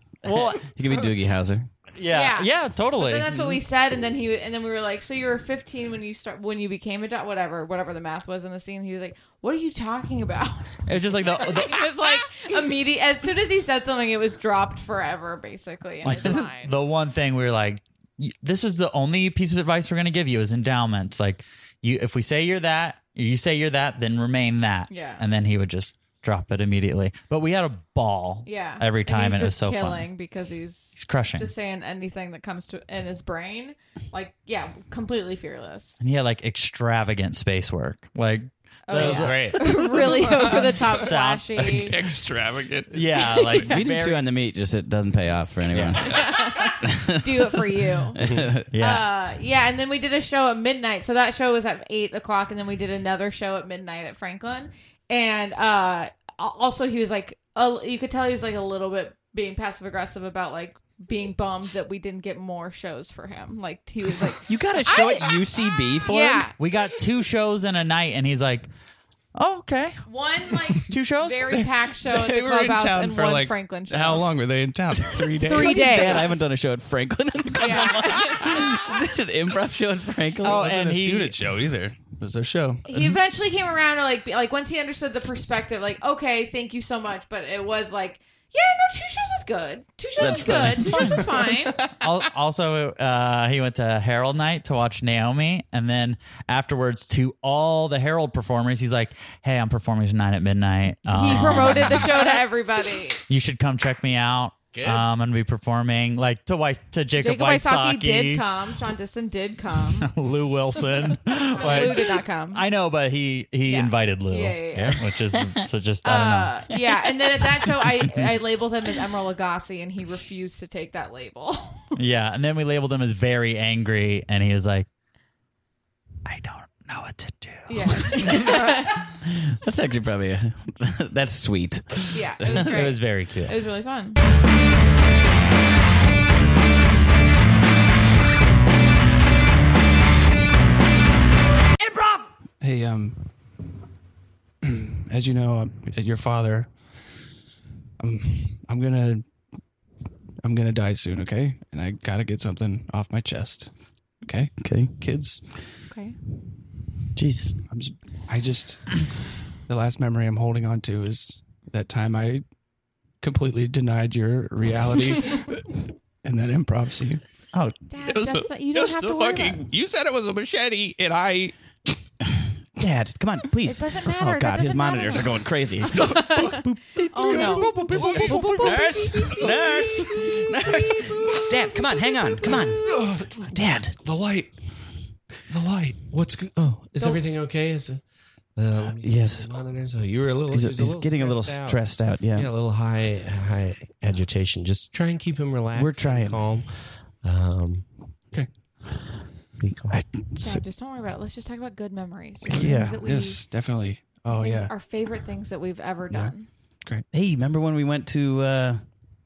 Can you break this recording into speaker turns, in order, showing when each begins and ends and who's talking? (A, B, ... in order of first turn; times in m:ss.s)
0:00.2-0:00.6 A
0:00.5-0:01.7 B
0:02.0-0:03.6 A
0:02.1-0:16.7 C
0:10.8-0:12.2 A
0:16.0-0:30.1 A
0:24.9-0:25.2 C
0:28.4-0:36.0 C
0:30.9-0:31.5 A
0:36.0-0:41.9 A
0:38.9-0:42.0 C
0:38.9-0:43.6 D
0:42.9-0:44.2 A
0:43.3-0:43.9 C
0:43.7-0:47.6 B
0:45.7-0:46.4 D
0:46.0-0:48.2 C
0:48.2-0:48.7 B
0:48.2-0:48.5 E
0:48.7-0:49.1 A
0:48.7-1:06.5 C
1:04.5-1:06.5 B
1:06.6-1:08.7 A
1:09.3-1:10.0 A
1:10.0-1:14.2 C
1:10.8-1:11.7 A
1:12.0-1:16.3 D
1:15.2-1:16.4 C
1:15.3-1:20.6 B
1:17.5-1:18.8 C
1:20.4-1:21.4 A
1:20.5-1:23.2 D
1:22.8-1:31.8 C
1:30.2-1:31.2 B
1:30.8-1:31.2 A
1:32.0-1:42.4 A
1:41.1-1:43.2 C
1:43.3-1:48.4 A
1:44.7-1:45.0 E
1:47.2-1:50.1 C
1:50.0-1:56.5 A
1:51.5-1:52.6 C
1:53.6-1:55.0 C
1:55.4-1:55.6 B
1:56.0-2:01.8 C
2:01.9-2:04.9 A
2:06.2-2:08.8 A
2:07.7-2:09.0 C
2:08.3-2:08.7 B
2:09.2-2:12.8 B
2:12.1-2:14.2 C
2:12.5-2:13.6 A
2:22.6-2:23.2 D
2:24.6-2:26.7 D
2:28.0-2:29.2 D
2:30.4-2:33.7 D
2:34.2-2:35.4 D
2:34.6-2:35.0 B
2:35.9-2:36.2 C
2:37.1-2:37.6 B
2:37.7-2:39.1 D
2:39.6-2:42.4 D
2:43.2-2:47.2 D
2:47.9-2:49.6 C
2:48.0-2:51.5 D
2:52.8-3:04.0 B
2:53.6-3:00.4 C
2:56.0-2:59.5 D
3:02.8-3:04.5 D
3:05.5-3:06.0 D
3:06.1-3:08.0 E
3:08.6-3:17.9 E
3:09.0-3:09.5 B
3:10.5-3:12.5 B
3:15.7-3:16.4 B
3:19.6-3:20.0 E
3:19.9-3:20.6 B
3:20.4-3:23.4 C
3:22.5-3:24.7 D
3:24.3-3:26.5 C
3:27.1-3:28.8 B